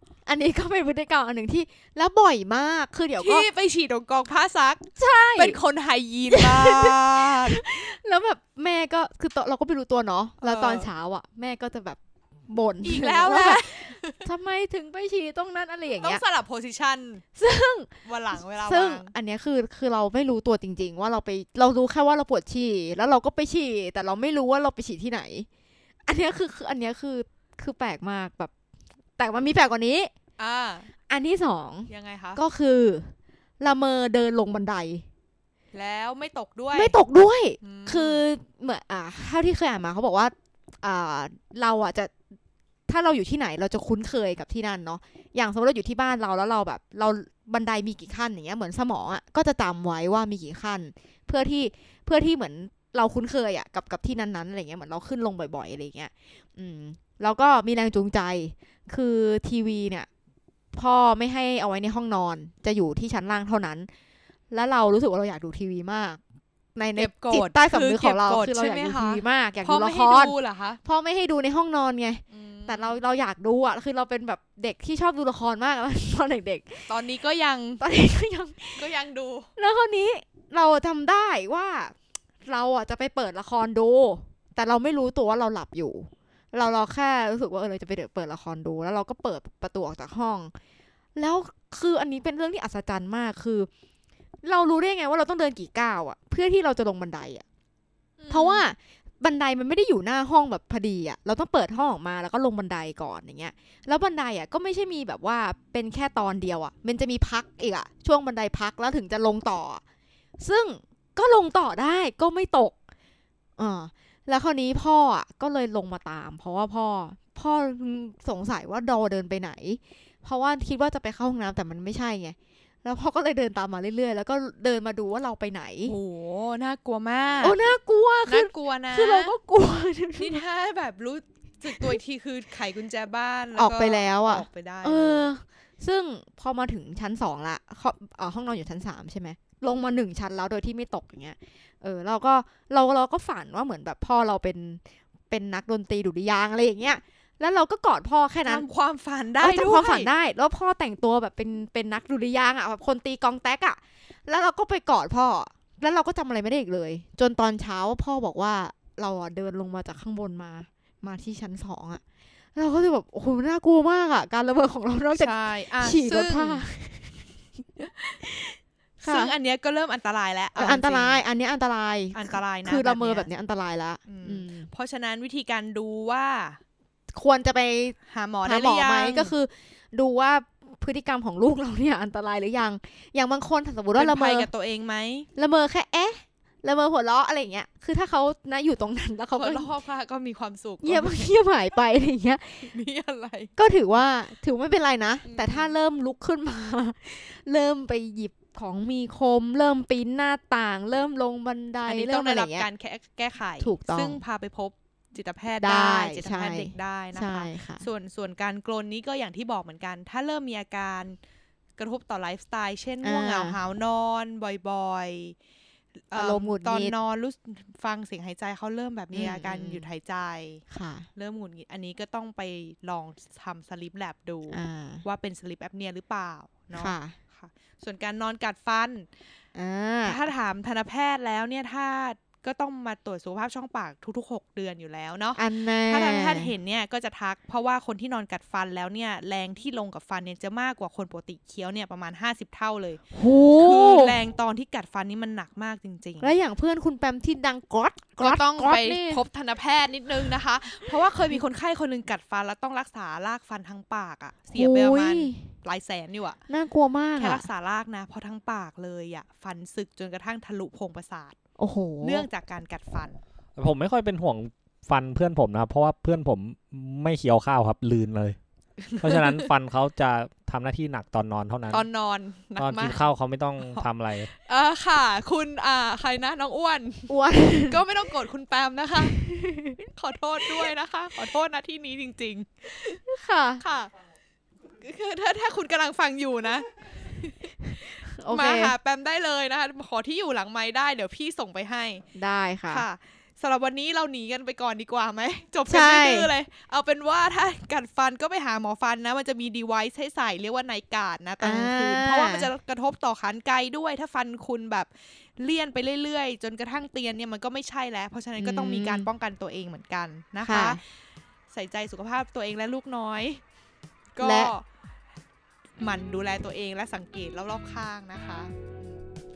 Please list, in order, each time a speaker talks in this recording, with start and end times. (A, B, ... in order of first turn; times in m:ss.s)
0:00.2-0:03.4 A
0:03.2-0:07.6 B
0:05.0-0:05.6 A
0:06.3-0:16.2 A
0:10.4-0:10.9 B
0:12.8-0:14.2 B
0:16.0-0:17.2 B
0:17.4-0:25.5 A
0:18.0-0:19.1 B
0:26.0-0:28.5 A
0:29.2-0:30.1 A
0:30.4-0:30.9 B
0:31.1-0:35.1 A
0:31.9-0:32.4 B
0:35.7-0:37.0 B
0:36.7-0:42.1 A
0:37.6-0:38.2 B
0:42.9-1:00.1 A
1:00.7-1:03.9 A
1:04.5-1:06.2 A
1:06.7-1:16.9 A
1:07.0-1:10.8 B
1:12.3-1:13.0 B
1:16.9-1:17.8 B
1:17.8-1:18.8 A
1:18.8-1:19.5 B
1:19.6-1:30.5 A
1:31.2-1:33.7 A
1:34.4-1:37.4 A
1:38.2-1:38.7 B
1:38.3-1:49.8 A
1:50.4-1:52.8 A
1:53.6-2:05.9 A
2:05.8-2:07.6 B
2:07.4-2:10.4 A
2:08.3-2:09.3 B
2:10.2-2:15.3 B
2:11.7-2:12.0 A
2:13.6-2:28.6 A
2:28.4-2:30.1 B
2:29.4-2:42.0 A
2:42.5-2:47.2 A
2:45.1-2:46.6 B
2:47.8-2:49.3 A
2:49.0-2:51.2 B
2:50.6-2:54.7 A
2:52.1-2:53.3 B
2:54.0-2:56.6 B
2:57.1-3:04.5 A
2:58.1-2:59.3 B
3:04.0-3:05.3 B
3:05.4-3:09.7 A
3:09.3-3:11.3 B
3:10.8-3:12.7 A
3:12.6-3:13.5 B
3:13.6-3:22.7 A
3:15.2-3:15.7 B
3:21.8-3:31.2 B
3:23.6-3:24.2 A
3:25.6-3:27.8 A
3:31.8-3:35.4 B
3:33.0-3:33.6 A
3:36.1-3:40.6 B
3:36.1-3:36.9 A
3:39.1-3:39.9 A
3:40.7-3:41.1 A
3:41.2-3:49.1 B
3:44.5-3:45.0 A
3:46.7-3:47.2 A
3:49.5-3:50.2 A
3:50.0-4:06.3 B
3:55.4-3:56.5 A
4:03.1-4:04.2 A
4:06.2-4:09.2 A
4:08.2-4:16.4 B
4:14.5-4:15.5 A
4:16.5-4:17.5 A
4:17.2-4:21.4 B
4:21.6-4:22.3 A
4:22.0-4:23.2 B
4:23.6-4:28.4 C
4:28.8-4:29.5 B
4:29.0-4:31.8 C
4:31.7-4:33.0 B
4:32.6-4:34.3 C
4:33.6-4:37.1 B
4:37.1-4:37.8 A
4:37.7-4:39.2 B
4:39.1-4:39.8 A
4:39.9-4:43.0 B
4:43.0-4:43.6 A
4:43.6-4:43.9 B
4:44.7-4:52.0 B
4:48.0-4:48.7 A
4:52.1-4:52.8 A
4:52.7-5:10.8 B
4:55.7-4:56.3 A
5:01.4-5:02.5 A
5:08.4-5:09.1 A
5:10.4-5:10.8 A
5:11.5-5:13.4 B
5:14.1-5:14.6 B
5:14.2-5:14.5 A
5:15.8-5:19.0 B